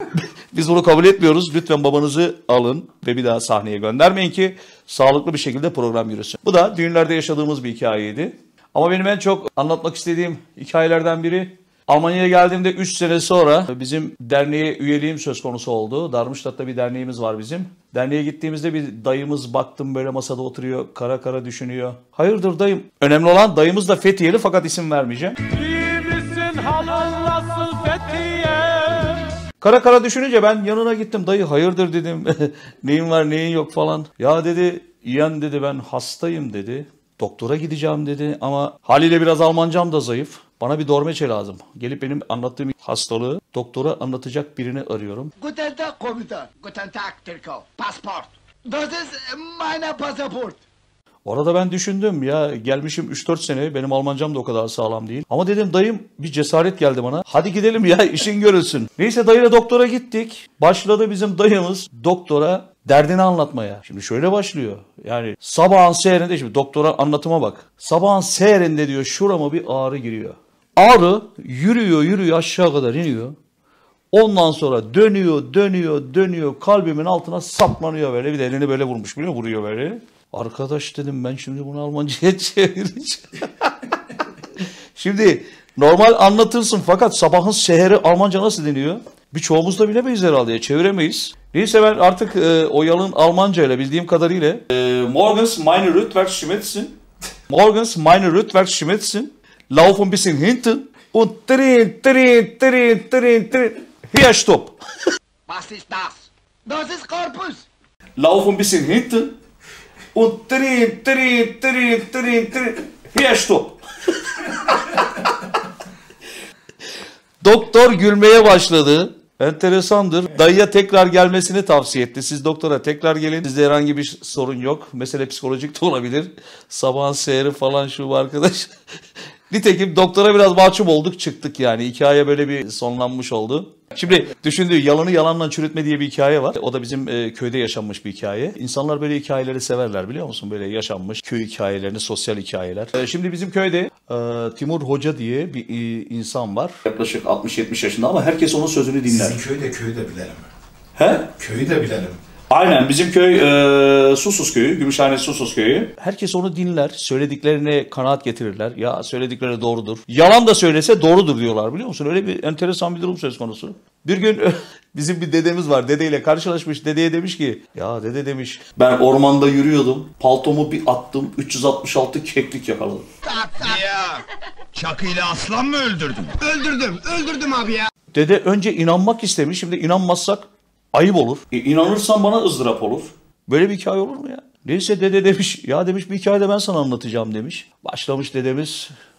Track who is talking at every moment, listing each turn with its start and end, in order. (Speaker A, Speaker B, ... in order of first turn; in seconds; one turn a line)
Speaker A: 0.5-25.5
Speaker B: 25.5-29.3
Speaker A: 29.6-45.3
Speaker C: 45.4-50.6
Speaker A: 51.2-73.3
Speaker A: 74.1-83.7
Speaker A: 84.9-97.0
Speaker A: 97.5-104.8
Speaker C: 105.5-107.7
Speaker A: 108.2-109.3
Speaker A: 110.1-113.8
Speaker A: 114.4-115.2
Speaker A: 117.4-128.7
Speaker A: 129.5-149.4
Speaker D: 149.3-150.4
Speaker A: 150.9-151.6
Speaker D: 151.4-152.2
Speaker A: 152.5-173.0
Speaker C: 173.2-177.9
Speaker D: 175.4-176.2
Speaker A: 178.1-188.9